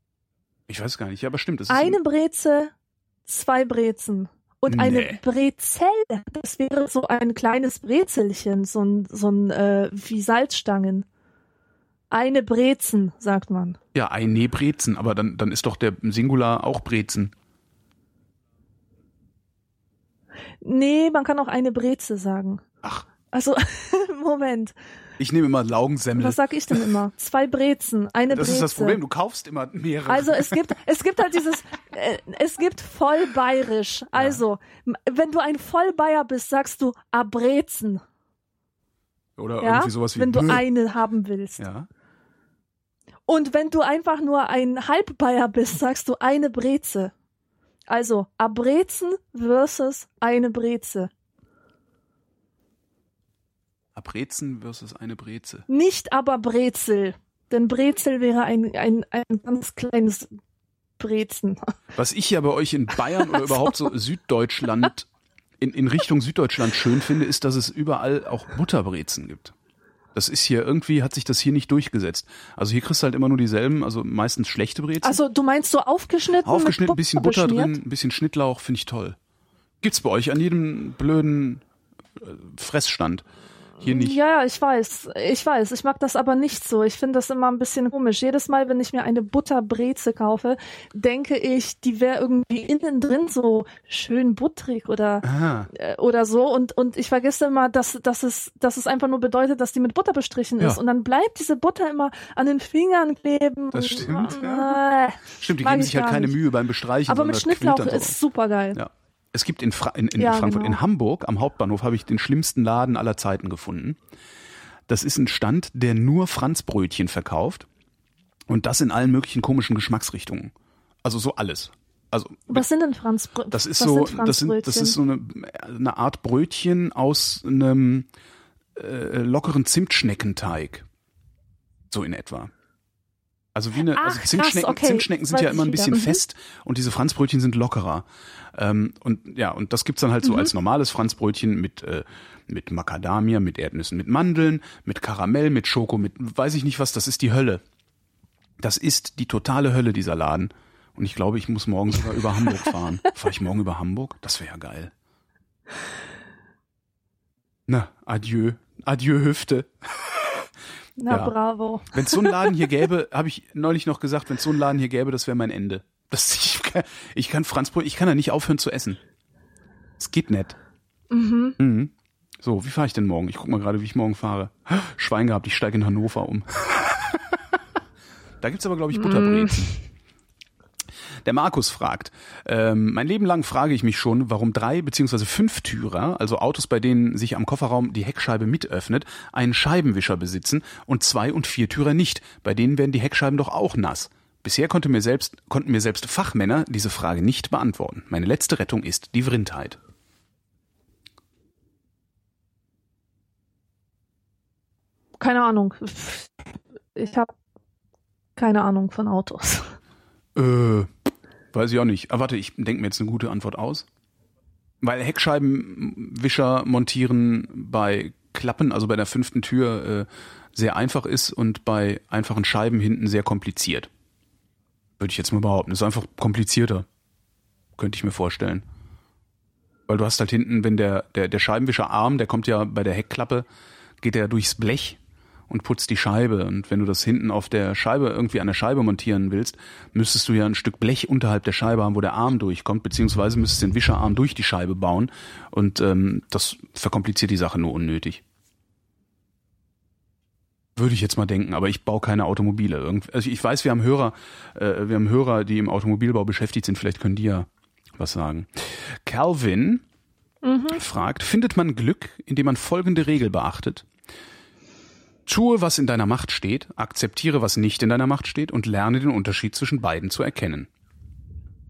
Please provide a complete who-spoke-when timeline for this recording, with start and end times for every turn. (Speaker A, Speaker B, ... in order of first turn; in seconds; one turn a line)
Speaker A: 0.7-2.0
Speaker B: 1.7-2.7
Speaker B: 3.3-11.1
Speaker A: 4.7-5.2
Speaker B: 12.1-13.8
Speaker A: 13.9-17.3
Speaker B: 20.6-22.6
Speaker B: 23.3-24.7
Speaker A: 25.2-26.9
Speaker B: 26.1-29.0
Speaker A: 28.3-30.7
Speaker B: 30.1-38.0
Speaker A: 34.1-34.4
Speaker A: 39.4-40.6
Speaker B: 39.6-41.6
Speaker A: 41.6-41.9
Speaker B: 43.3-47.1
Speaker B: 47.9-51.1
Speaker A: 53.9-55.6
Speaker B: 55.7-60.3
Speaker B: 61.0-61.7
Speaker A: 61.9-65.1
Speaker B: 63.1-63.7
Speaker A: 65.6-69.5
Speaker A: 70.1-75.2
Speaker B: 75.0-77.8
Speaker A: 76.4-79.2
Speaker A: 79.8-81.6
Speaker A: 82.2-83.2
Speaker A: 83.8-84.2
Speaker B: 83.8-106.4
Speaker A: 95.2-95.7
Speaker A: 103.7-108.2
Speaker B: 107.1-108.8
Speaker A: 108.7-114.0
Speaker B: 110.2-110.8
Speaker A: 114.9-117.7
Speaker A: 118.5-120.5
Speaker A: 121.0-122.6
Speaker B: 122.5-125.0
Speaker A: 123.5-128.1
Speaker A: 128.8-130.8
Speaker A: 131.9-132.5
Speaker A: 133.5-147.6
Speaker B: 133.9-136.2
Speaker B: 140.2-140.5
Speaker A: 148.6-154.9
Speaker A: 157.7-160.5
Speaker B: 161.0-162.3
Speaker A: 161.1-161.3
Speaker A: 161.9-169.0
Speaker A: 170.0-170.6
Speaker B: 171.1-171.6
Speaker A: 171.6-177.4
Speaker A: 178.4-179.8
Speaker B: 178.9-179.8
Speaker A: 181.2-199.8
Speaker B: 205.2-207.3
Speaker B: 208.3-209.7
Speaker A: 210.3-210.9
Speaker A: 211.5-213.8
Speaker A: 214.8-223.9
Speaker A: 225.0-226.9
Speaker A: 227.8-228.6
Speaker A: 229.9-233.4
Speaker A: 234.0-248.2
Speaker A: 250.8-259.8
Speaker B: 260.4-260.8
Speaker A: 260.7-263.9
Speaker A: 265.2-270.7